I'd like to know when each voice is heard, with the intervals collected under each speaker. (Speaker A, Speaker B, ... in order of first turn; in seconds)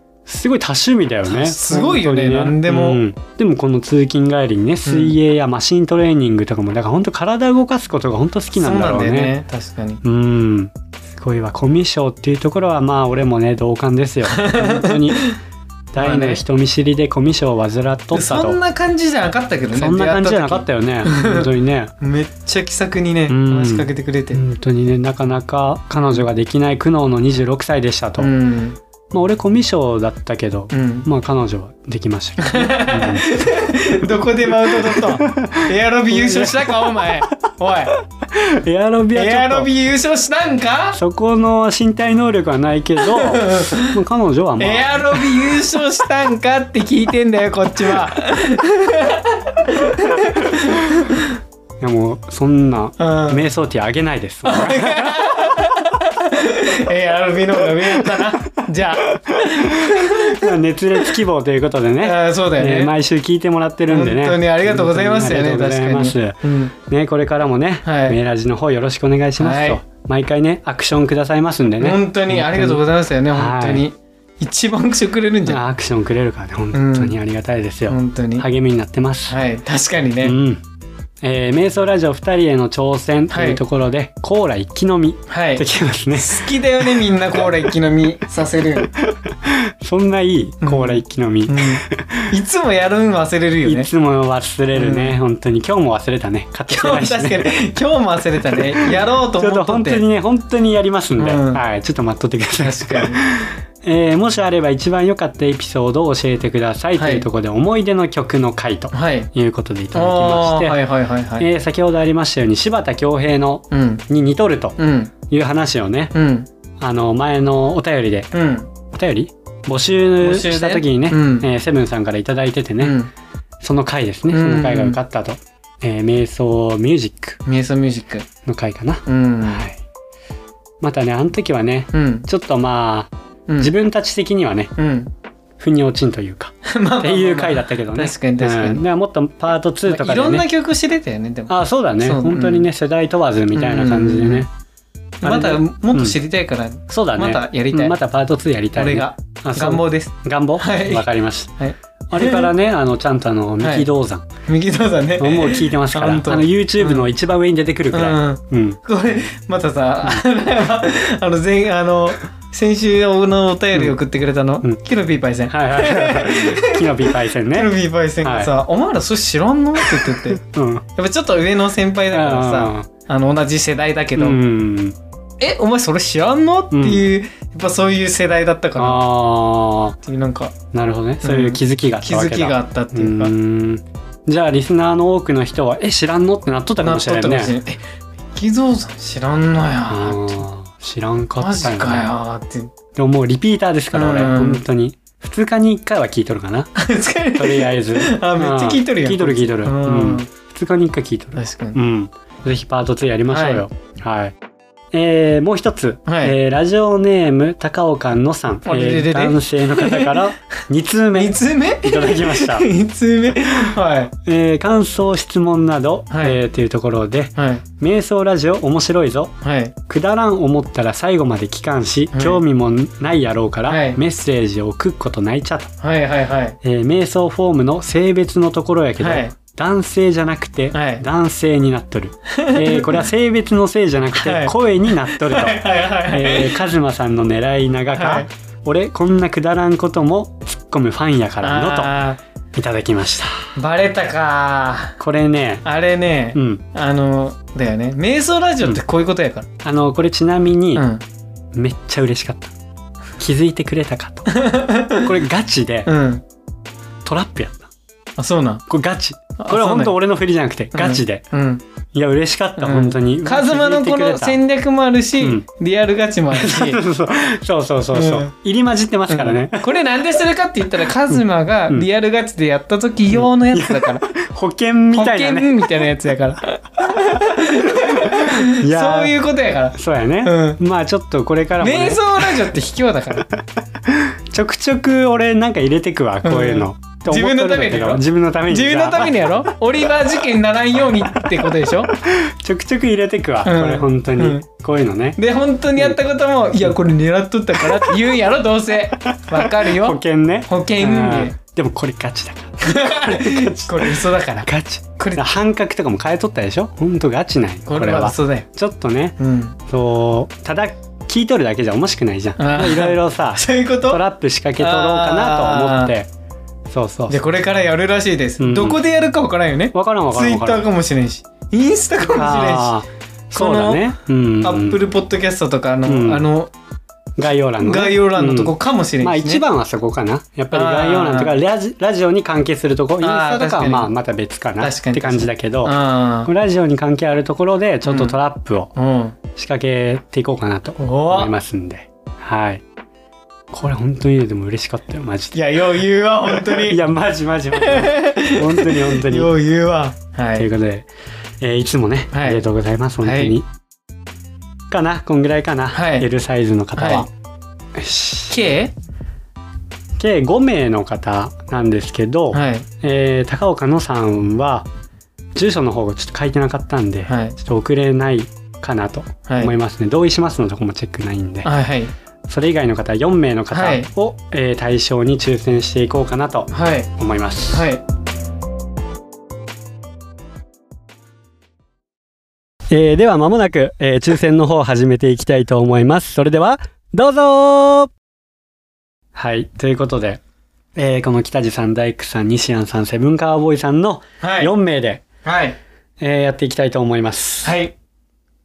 Speaker A: 0.2-9.4, 10.0-15.3, 15.9-18.6, 19.7-21.9, 23.3-28.3, 29.1-33.5, 34.5-37.2, 38.3-39.7, 40.9-45.6, 51.8-55.3, 59.3-73.8, 75.5-79.3, 80.2-80.6, 81.2-86.5, 89.0-92.2, 93.6-97.5, 98.5-110.8, 111.4-114.8, 115.3-116.1, 116.8-118.3, 118.9-123.0, 123.6-127.4, 128.4-129.8, 130.8-134.7, 135.6-140.5, 141.5-144.5, 145.2-146.2, 146.9-151.5, 152.1-154.2, 155.2-158.8, 165.5-168.5, 169.8-170.8, 172.1-172.9, 174.2-175.0, 176.7-177.0, 178.8-180.0, 180.7-187.6, 189.9-192.1, 192.9-196.7, 197.3-204.3, 204.9-212.7, 214.2-219.3, 219.9-225.7, 226.6-241.9, 242.5-243.5, 245.0-245.6, 246.3-246.6, 249.6-250.8, 251.5-252.5, 253.2-254.3, 255.0-255.9, 257.0-257.7, 258.7-261.2, 261.9-264.4, 265.2-265.4, 266.3-269.7, 271.1-271.9, 273.1-275.7, 277.2-279.2, 279.7-282.5, 283.4-289.4, 291.9-295.2, 297.6-298.0, 299.0-309.2, 309.7-316.1, 316.7-317.2, 318.4-318.8, 319.7-320.6, 322.1-324.8, 325.9-326.3, 327.2-338.7, 339.3-342.6, 343.5-345.4, 346.3-349.3, 350.4-350.9, 351.4-353.5, 354.7-357.1, 357.7-358.4, 360.0-364.6, 365.3-371.5, 372.3-377.7, 382.7-387.9, 389.1-390.2, 390.7-395.0, 396.0-397.6
Speaker B: 1.2-3.0, 4.8-5.1, 8.6-10.0, 14.3-15.4, 16.0-16.4, 18.1-21.5, 22.0-24.4, 25.9-26.2, 28.2-28.8, 30.7-31.1, 32.4-37.9, 39.1-41.0, 43.0-44.0, 44.6-51.2, 53.0-53.4, 54.4-60.5, 62.0-62.9, 63.9-66.7, 67.8-68.2, 69.4-69.8, 71.8-75.6, 76.7-77.2, 77.9-78.5, 79.3-80.4, 83.3-83.6, 85.3-88.9, 90.6-93.9, 94.7-95.2, 96.7-100.0, 101.2-101.6, 102.6-103.2, 107.0-107.2, 108.9-109.3, 109.9-111.5, 113.7-114.0, 114.8-115.1, 116.1-116.5, 118.3-118.7, 120.2-121.5, 122.8-123.1, 124.3-125.0, 127.4-128.3, 129.1-129.7, 131.9-132.2, 134.8-135.1, 136.7-138.8, 139.8-142.7, 143.5-144.5, 145.2-148.0, 148.7-151.1, 151.6-152.5, 153.6-153.9, 154.4-157.1, 157.9-170.4, 170.9-174.4, 175.4-179.0, 180.0-180.5, 181.2-183.3, 186.8-187.8, 188.3-190.4, 191.4-192.7, 193.9-194.6, 196.8-200.3, 201.3-201.8, 203.3-203.6, 206.1-206.3, 208.6-210.2, 211.1-214.1, 216.1-216.4, 217.3-217.6, 219.4-219.7, 222.1-222.4, 223.7-224.0, 225.8-226.6, 229.0-229.3, 230.7-231.0, 232.3-233.0, 234.1-236.6, 237.9-238.3, 241.4-242.2, 243.6-245.0, 245.6-249.5, 250.7-251.0, 254.3-255.1, 255.8-256.2, 258.2-258.6, 259.4-259.9, 260.7-261.6, 262.6-266.8, 267.9-268.3, 269.1-274.1, 274.9-280.6, 281.6-283.2, 286.2-291.9, 293.4-294.4, 295.2-301.4, 302.6-305.2, 307.7-308.5, 309.2-309.6, 312.4-314.0, 314.6-315.9, 317.1-322.8, 323.3-326.5, 327.6-329.4, 330.5-331.4, 333.0-333.9, 334.6-336.3, 337.8-338.1, 338.7-339.1, 340.8-341.3, 345.3-346.8, 347.6-350.5, 352.1-352.4, 353.0-353.4, 355.7-356.1, 356.8-357.1, 358.3-358.7, 362.3-362.6, 367.1-367.4, 369.3-369.5, 371.4-371.9, 373.5-373.9, 376.5-376.9, 377.5-377.8, 394.2-394.5, 395.2-395.6, 397.4-397.7